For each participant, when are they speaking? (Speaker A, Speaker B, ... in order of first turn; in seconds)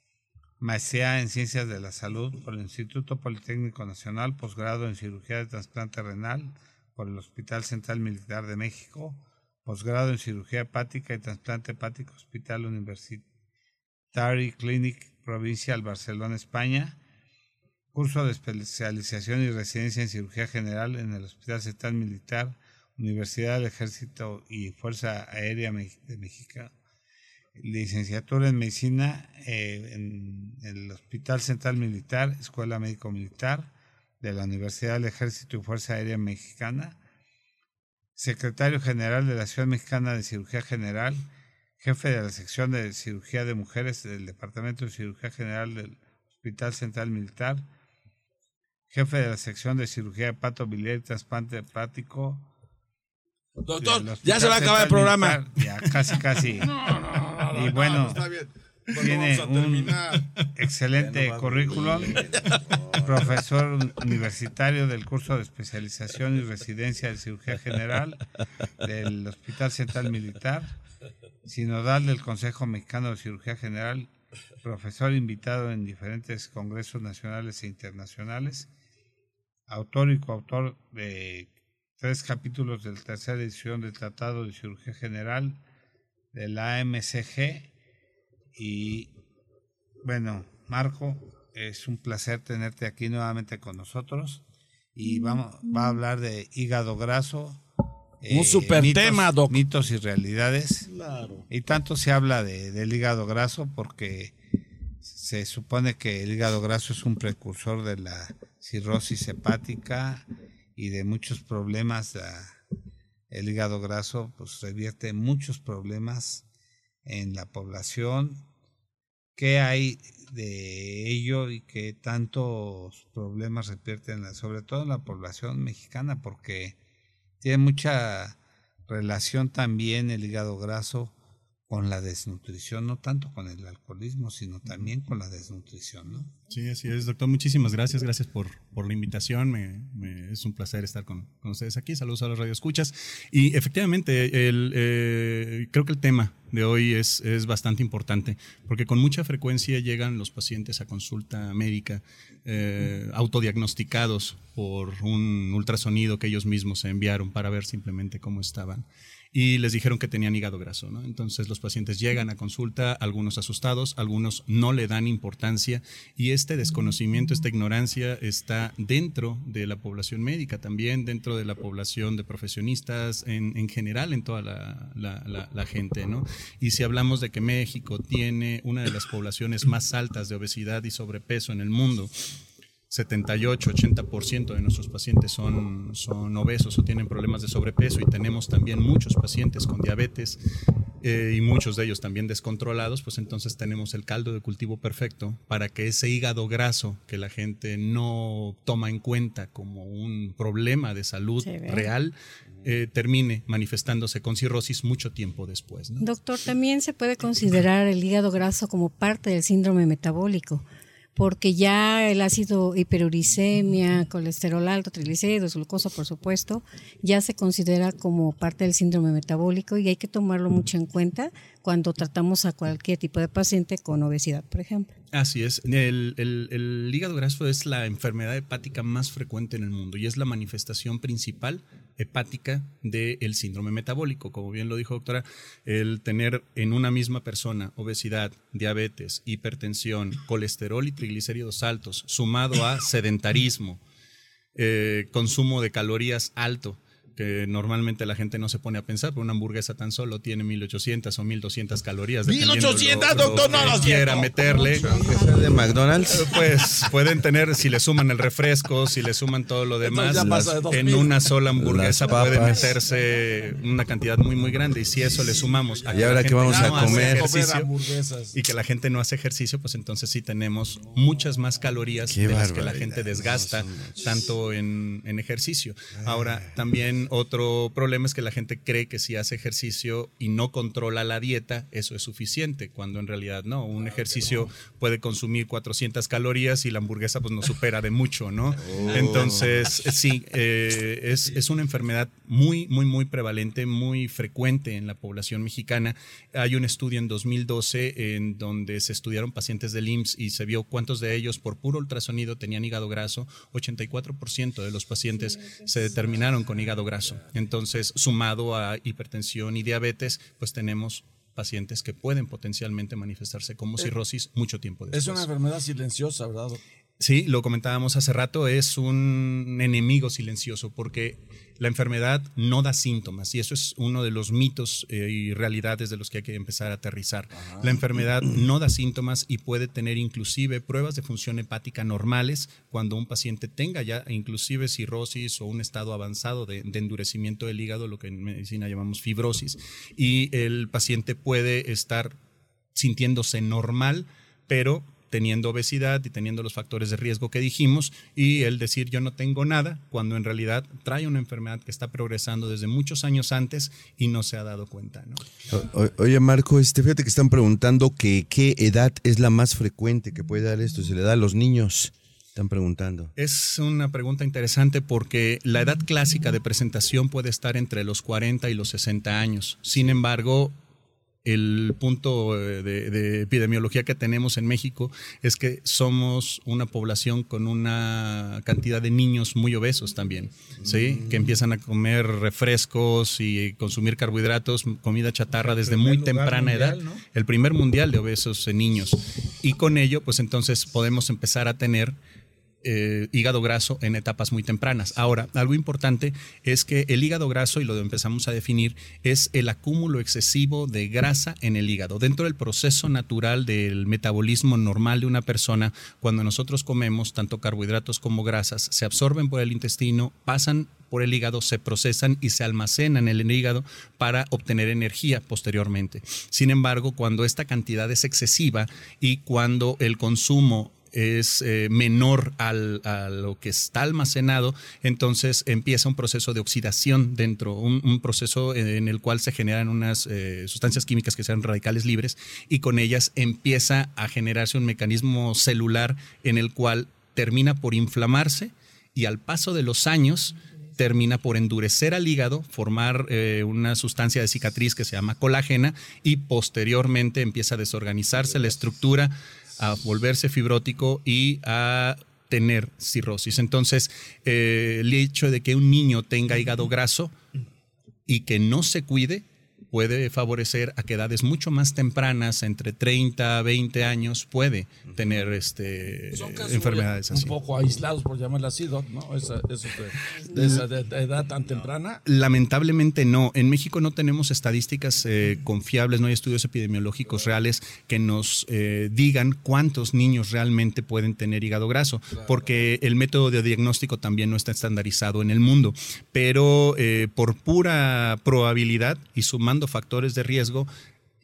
Speaker A: 0.6-13.2, 14.1-17.0, 17.9-26.7, 27.6-37.0, 38.2-41.2, 41.8-47.7, 48.9-52.5, 53.8-56.9, 57.5-58.3, 58.9-62.2, 63.0-68.3, 68.8-70.8, 71.5-78.7, 79.7-85.6, 86.3-87.7, 88.5-89.1, 90.0-97.6, 98.2-100.9, 101.5-104.3, 105.0-112.6, 113.3-116.5, 117.0-118.5, 119.4-126.8, 127.4-131.1, 131.7-136.3, 385.4-387.0
Speaker B: 53.6-55.4, 56.5-60.3, 62.2-62.6, 98.3-99.6, 100.9-101.5, 252.3-255.7, 259.8-261.2, 266.1-268.4, 283.8-284.5, 288.7-289.3, 314.9-316.6, 327.4-327.8, 466.1-472.0
Speaker C: 61.0-63.4, 254.9-256.3, 260.2-260.5, 261.6-262.8, 265.9-267.3, 272.1-274.2, 276.0-276.5, 288.6-289.7, 355.5-363.1, 380.6-381.2
Speaker D: 136.5-182.3, 182.9-190.4, 191.0-206.0, 225.1-243.8, 244.6-254.9, 256.1-267.7, 268.3-315.3, 317.0-342.1, 342.8-355.3, 363.2-370.5, 371.2-392.0, 392.6-457.1, 458.1-467.4, 472.1-490.7
Speaker E: 201.4-201.9, 206.0-210.6, 211.2-225.0, 254.4-255.7